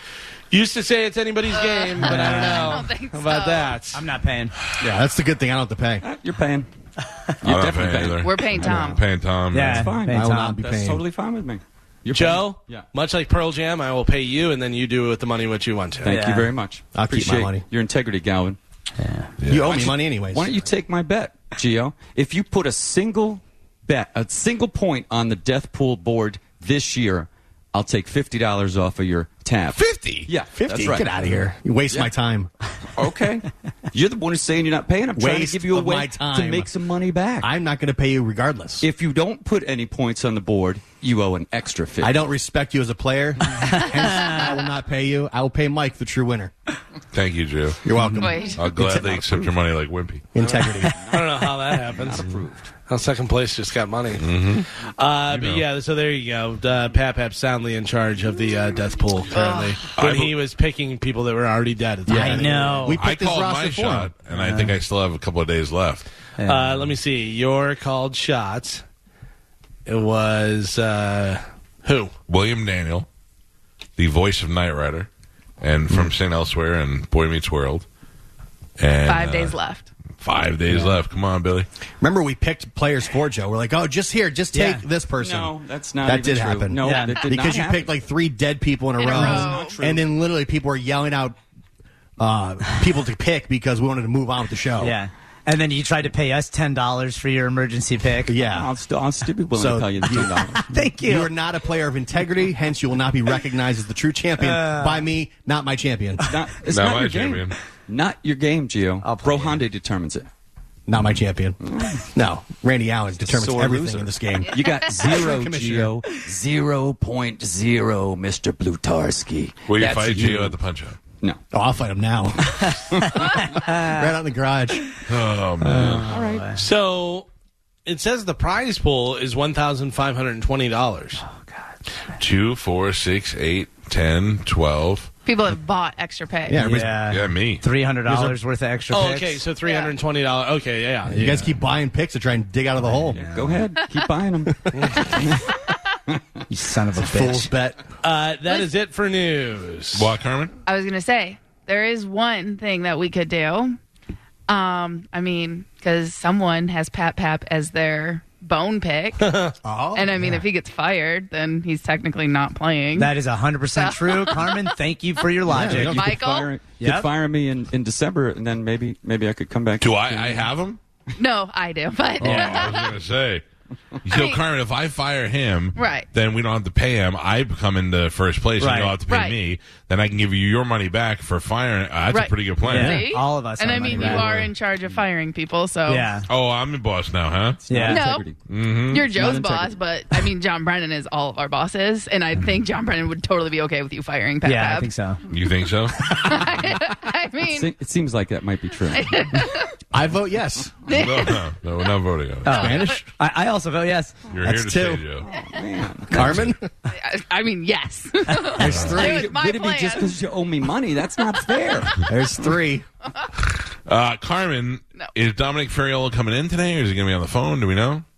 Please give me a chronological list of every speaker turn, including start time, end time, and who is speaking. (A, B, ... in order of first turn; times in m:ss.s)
0:00.5-0:04.0 A
0:01.6-0:03.8 B
0:02.0-0:02.8 C
0:03.9-0:04.6 C
0:04.7-0:06.0 D
0:06.0-0:06.7 E
0:07.4-0:08.5 E
0:07.4-0:09.9 F
0:08.2-0:09.0 B
0:09.5-0:10.7 C
0:09.6-0:12.9 E
0:10.0-0:11.0 D
0:12.1-0:16.1 A
0:16.0-0:16.5 C
0:16.0-0:18.6 E
0:16.9-0:17.7 D
0:19.0-0:19.3 C
0:19.4-0:20.0 F
0:19.4-0:20.6 D
0:19.7-0:32.1 E
0:29.7-0:30.3 F
0:30.4-0:32.5 D
0:33.0-0:37.5 E
0:35.2-0:36.7 D
0:37.4-0:38.9 D
0:38.8-0:42.3 E
0:42.0-0:46.5 D
0:43.7-0:44.4 C
0:47.1-0:47.8 F
0:47.8-0:48.5 D
0:47.9-0:49.1 C
0:48.2-0:48.6 B
0:48.6-0:50.3 F
0:49.1-0:49.5 E
0:50.3-0:51.0 D
0:50.4-0:52.7 E
0:51.0-0:52.3 A
0:52.9-0:54.2 A
0:54.2-0:54.7 F
0:54.8-1:02.8 A
0:55.3-0:55.6 F
0:59.3-0:59.8 B
1:00.0-1:00.4 F
1:02.1-1:03.0 C
1:02.1-1:04.1 D
1:02.9-1:06.1 F
1:04.3-1:04.8 C
1:06.4-1:07.0 C
1:06.4-1:08.8 A
1:09.9-1:12.1 A
1:12.3-1:13.1 F
1:14.0-1:15.1 F
1:15.6-1:17.8 F
1:18.8-1:19.6 F
1:19.0-1:19.9 B
1:20.2-1:21.7 F
1:22.0-1:31.4 D
1:24.5-1:24.8 C
1:25.1-1:28.0 E
1:26.8-1:27.3 C
1:29.0-1:29.8 B
1:29.1-1:30.1 E
1:29.1-1:29.5 C
1:32.2-1:35.0 D
1:34.8-1:38.4 C
1:38.3-1:38.7 D
1:38.4-1:40.6 E
1:39.5-1:46.4 D
1:40.6-1:41.3 C
1:44.4-1:45.1 C
1:46.2-1:50.3 E
1:46.7-1:47.6 F
1:49.0-1:49.6 C
1:50.9-1:56.0 D
1:51.6-1:52.0 E
1:53.2-2:00.6 E
1:54.5-1:54.8 B
1:59.7-2:01.0 F
2:01.5-2:04.9 D
2:03.4-2:04.1 C
2:05.1-2:06.1 F
2:05.6-2:06.6 C
2:06.0-2:06.5 E
2:06.6-2:07.3 A
2:07.9-2:11.2 A
2:11.3-2:11.6 C
2:12.2-2:15.1 F
2:15.3-2:16.7 B
2:16.5-2:17.1 D
2:16.6-2:19.4 C
2:17.1-2:17.6 F
2:18.1-2:18.4 D
2:18.9-2:21.3 A
2:19.6-2:19.9 B
2:21.1-2:23.2 D
2:21.2-2:21.5 C
2:22.8-2:23.7 C
2:23.2-2:25.5 E
2:24.5-2:24.8 D
2:26.1-2:26.4 E
2:26.5-2:27.5 C
2:27.0-2:27.8 D
2:28.0-2:30.1 A
2:30.0-2:30.5 F
2:30.7-2:33.8 B
2:34.5-2:43.1 B
2:39.2-2:39.5 A
2:39.6-2:40.4 D
2:43.0-2:46.1 C
2:43.8-2:44.8 B
2:45.5-2:46.1 D
2:45.6-2:46.5 B
2:46.0-2:50.5 E
2:46.8-2:47.1 C
2:49.8-2:50.8 F
2:51.2-2:52.9 B
2:52.2-2:53.4 F
2:52.2-2:52.7 C
2:54.0-3:03.0 F
2:54.1-2:54.4 B
2:55.8-2:56.1 B
2:58.6-2:59.0 C
2:59.1-2:59.4 B
3:02.1-3:06.1 B
3:02.6-3:04.5 C
3:05.9-3:06.3 C
3:06.3-3:07.8 F
3:07.7-3:08.4 E
3:07.7-3:08.1 C
3:07.8-3:08.3 B
3:08.5-3:09.1 F
3:08.9-3:14.9 B
3:09.0-3:09.7 E
3:14.4-3:15.3 C
3:15.3-3:16.0 F
3:16.1-3:17.7 B
3:16.1-3:16.9 C
3:17.5-3:19.2 E
3:18.9-3:19.7 B
3:19.9-3:20.7 D
3:20.9-3:21.4 B
3:20.9-3:22.9 F
3:22.4-3:24.3 C
3:22.5-3:23.0 B
3:22.5-3:23.1 D
3:24.3-3:25.3 F
3:24.4-3:25.1 D
3:25.3-3:26.4 E
3:26.1-3:26.7 D
3:26.1-3:26.5 F
3:26.9-3:30.1 B
3:28.3-3:29.2 C
3:28.6-3:29.0 F
3:28.6-3:29.2 D
3:28.8-3:32.1 E
3:31.2-3:32.0 B
3:32.0-3:32.9 D
3:33.9-3:38.0 F